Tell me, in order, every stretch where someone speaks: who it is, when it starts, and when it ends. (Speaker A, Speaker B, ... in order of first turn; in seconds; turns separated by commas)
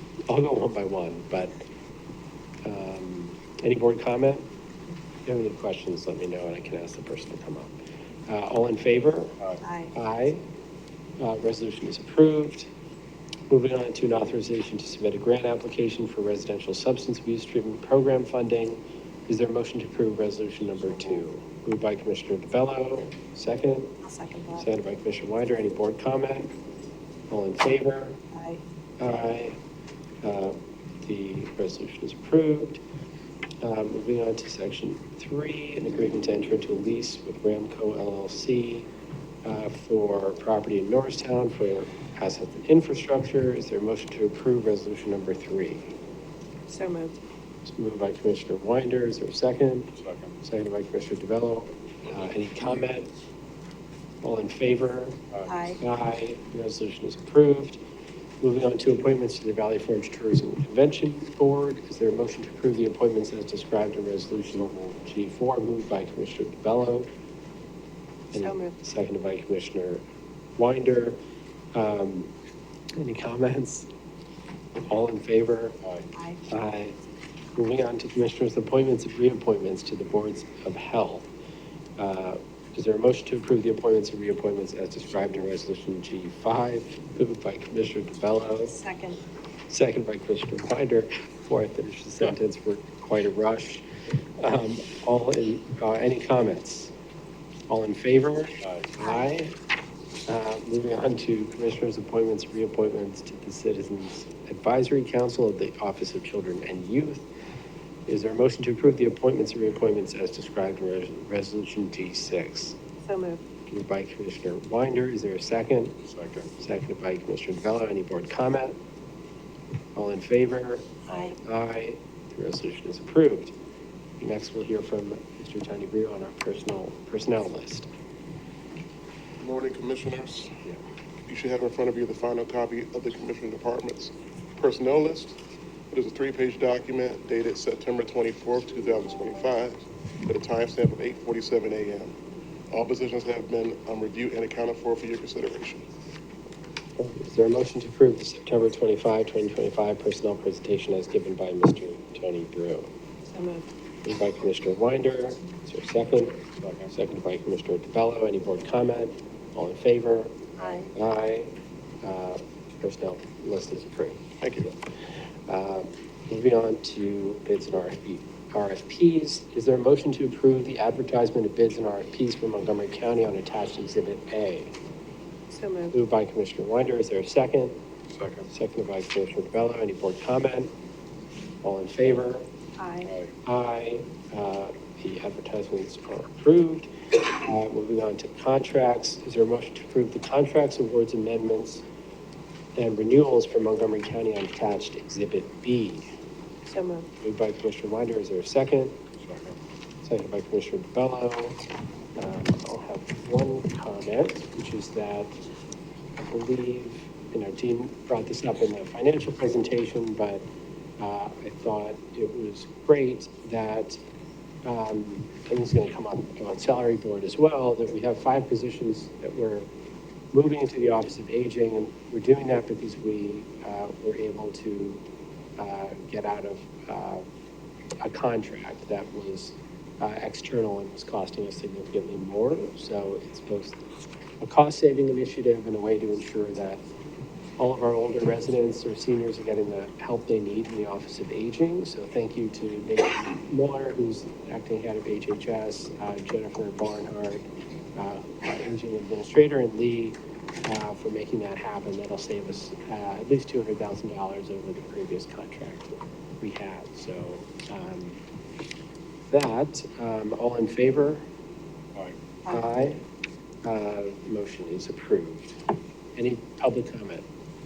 Speaker A: 0.3-1.6, Speaker A: 2.6-4.5, Speaker A: 5.2-7.8, Speaker A: 8.3-9.3, Speaker B: 9.6-9.9, Speaker A: 9.9-10.4, Speaker A: 11.2-12.7, Speaker A: 13.5-23.9, Speaker C: 20.8-21.2, Speaker B: 24.0-24.7, Speaker A: 24.5-26.5, Speaker A: 27.3-28.2, Speaker B: 28.3-28.6, Speaker A: 29.0-29.6, Speaker A: 30.2-32.8, Speaker A: 33.6-38.9, Speaker A: 39.4-45.9, Speaker B: 46.7-47.1, Speaker A: 47.6-49.9, Speaker C: 49.9-50.4, Speaker A: 50.4-53.1, Speaker A: 54.2-55.2, Speaker C: 55.3-55.7, Speaker B: 55.5-55.8, Speaker A: 55.8-57.8, Speaker A: 58.4-67.1, Speaker C: 64.5-65.0, Speaker A: 68.3-70.0, Speaker B: 68.3-68.7, Speaker A: 70.6-71.2, Speaker A: 71.7-72.3, Speaker A: 73.0-73.9, Speaker A: 74.9-75.8, Speaker C: 75.8-76.1, Speaker B: 76.1-76.5, Speaker A: 76.5-77.0, Speaker A: 77.5-81.3, Speaker A: 82.0-88.8, Speaker B: 88.6-89.2, Speaker A: 89.7-93.9, Speaker A: 94.4-96.9, Speaker A: 97.7-99.5, Speaker C: 98.6-98.9, Speaker B: 99.0-99.3, Speaker A: 100.3-107.3, Speaker A: 108.1-112.8, Speaker B: 113.0-113.4, Speaker A: 113.7-116.0, Speaker C: 116.0-116.5, Speaker A: 116.6-118.8, Speaker A: 119.9-123.5, Speaker B: 121.1-121.3, Speaker A: 124.2-127.9, Speaker D: 129.4-130.6, Speaker D: 131.3-135.4, Speaker D: 135.9-142.1, Speaker D: 142.7-145.9, Speaker A: 147.0-152.9, Speaker B: 153.3-153.7, Speaker A: 154.0-161.5, Speaker C: 156.6-156.9, Speaker B: 160.6-160.9, Speaker A: 162.0-164.2, Speaker D: 164.4-164.7, Speaker A: 165.5-174.7, Speaker B: 175.5-175.9, Speaker A: 175.9-177.8, Speaker C: 178.1-178.5, Speaker A: 178.5-180.7, Speaker A: 181.6-182.4, Speaker B: 182.8-183.1, Speaker C: 183.0-183.3, Speaker A: 183.4-191.8, Speaker A: 192.8-196.1, Speaker B: 196.7-197.1, Speaker A: 197.2-199.0, Speaker C: 199.2-199.6, Speaker A: 200.0-201.6, Speaker A: 202.2-205.4, Speaker A: 206.2-210.4, Speaker A: 211.0-214.0, Speaker A: 214.6-219.7, Speaker A: 220.3-225.0, Speaker A: 225.6-227.2, Speaker A: 228.0-233.8, Speaker A: 234.4-236.8, Speaker A: 237.6-247.4, Speaker A: 247.9-255.9, Speaker A: 256.4-258.2, Speaker A: 259.3-261.2, Speaker A: 262.5-263.0, Speaker A: 263.6-265.6, Speaker A: 266.2-267.2